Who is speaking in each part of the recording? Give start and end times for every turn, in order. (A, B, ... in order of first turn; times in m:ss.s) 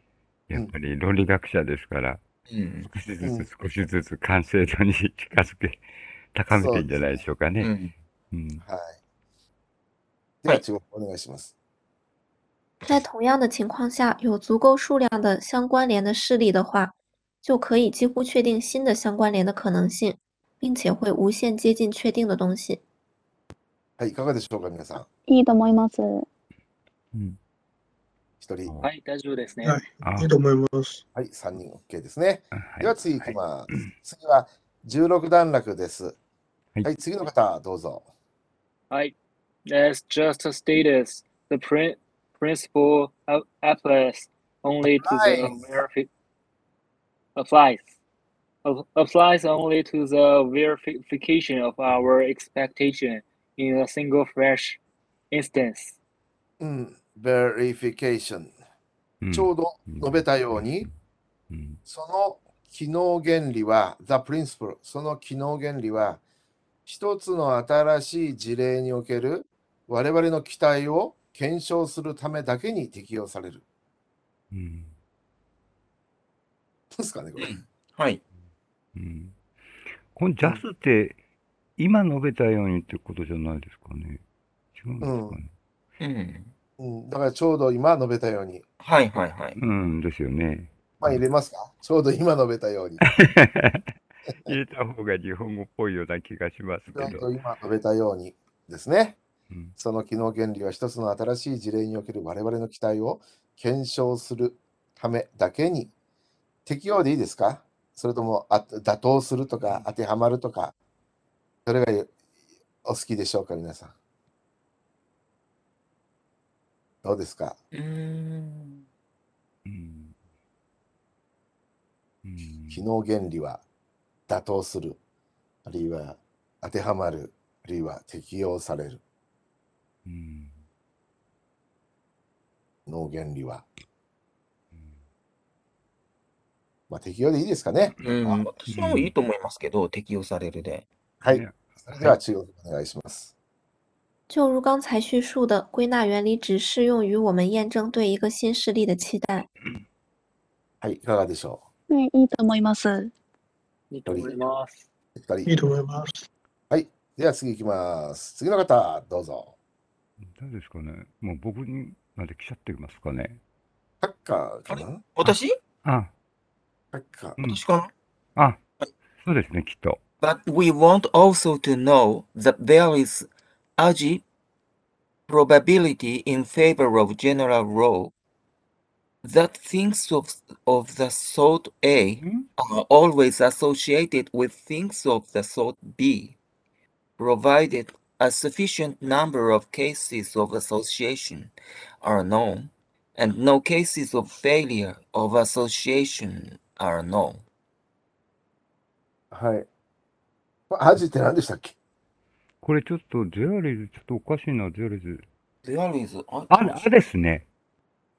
0:00.5-0:02.2 A
0:02.5-0:02.9 B
0:02.9-0:05.8 A
0:03.2-0:03.5 C
0:06.3-0:07.7 A
0:06.5-0:07.2 C
0:07.6-0:07.9 B
0:08.3-0:08.6 A
0:08.6-0:09.0 C
0:10.4-0:11.5 C
0:12.8-0:22.8 D
0:24.0-0:25.1 C
0:25.3-0:26.3 E
0:27.1-0:27.4 A
0:28.4-0:28.7 C
0:28.7-0:28.9 A
0:28.8-0:29.8 F
0:29.6-0:31.0 G
0:30.0-0:30.3 A
0:31.2-0:36.2 C
0:32.7-0:33.9 A
0:36.8-0:38.1 C
0:39.7-0:46.1 F
0:45.0-0:45.6 C
0:47.4-0:47.9 F
0:48.6-0:54.8 F
0:55.3-0:56.0 F
0:56.6-0:58.5 C
0:59.2-1:00.9 A
0:59.3-1:00.9 C
1:01.5-1:01.8 A
1:01.9-1:06.2 C
1:06.9-1:13.6 C
1:14.5-1:14.9 A
1:16.9-1:17.5 C
1:17.4-1:18.2 B
1:19.0-1:19.4 A
1:20.1-1:21.2 A
1:21.8-1:24.2 A
1:24.8-1:25.5 A
1:25.0-1:25.4 C
1:26.0-1:26.5 B
1:26.8-1:28.6 C
1:28.8-1:29.6 B
1:29.6-1:31.2 A
1:31.0-1:33.0 C
1:33.1-1:33.9 A
1:34.5-1:37.2 A
1:36.9-1:39.2 C
1:39.8-1:45.9 C
1:46.7-1:50.7 C
1:51.7-1:52.1 C
1:52.8-1:53.9 C
1:57.0-1:57.6 C
1:57.7-1:58.8 B
1:59.7-2:00.1 A
2:02.2-2:02.8 A
2:02.7-2:03.6 C
2:04.3-2:05.0 C
2:05.6-2:09.0 C
2:10.1-2:10.6 A
2:12.9-2:13.7 C
2:16.9-2:18.4 C
2:18.0-2:20.9 B
2:18.7-2:19.1 A
2:21.2-2:23.3 C
2:21.3-2:22.2 A
2:24.3-2:29.5 D
2:30.8-2:31.6 C
2:31.9-2:33.1 E
2:33.9-2:34.8 F
2:34.1-2:34.4 C
2:35.2-2:35.5 C
2:35.5-2:36.3 G
2:36.7-2:39.5 C
2:40.2-2:43.4 A
2:44.0-2:45.0 C
2:44.7-2:45.6 B
2:45.2-2:46.1 A
2:46.9-2:47.4 C
2:47.4-2:47.9 B
2:49.2-2:50.0 A
2:50.2-2:53.3 B
2:53.8-2:54.2 B
2:55.3-2:58.1 B
2:59.2-3:06.4 B
3:02.2-3:02.5 A
3:07.2-3:17.4 B
3:19.3-3:19.7 C
3:20.7-3:21.7 C
3:22.6-3:25.2 A
3:25.6-3:26.9 B
3:26.5-3:27.4 A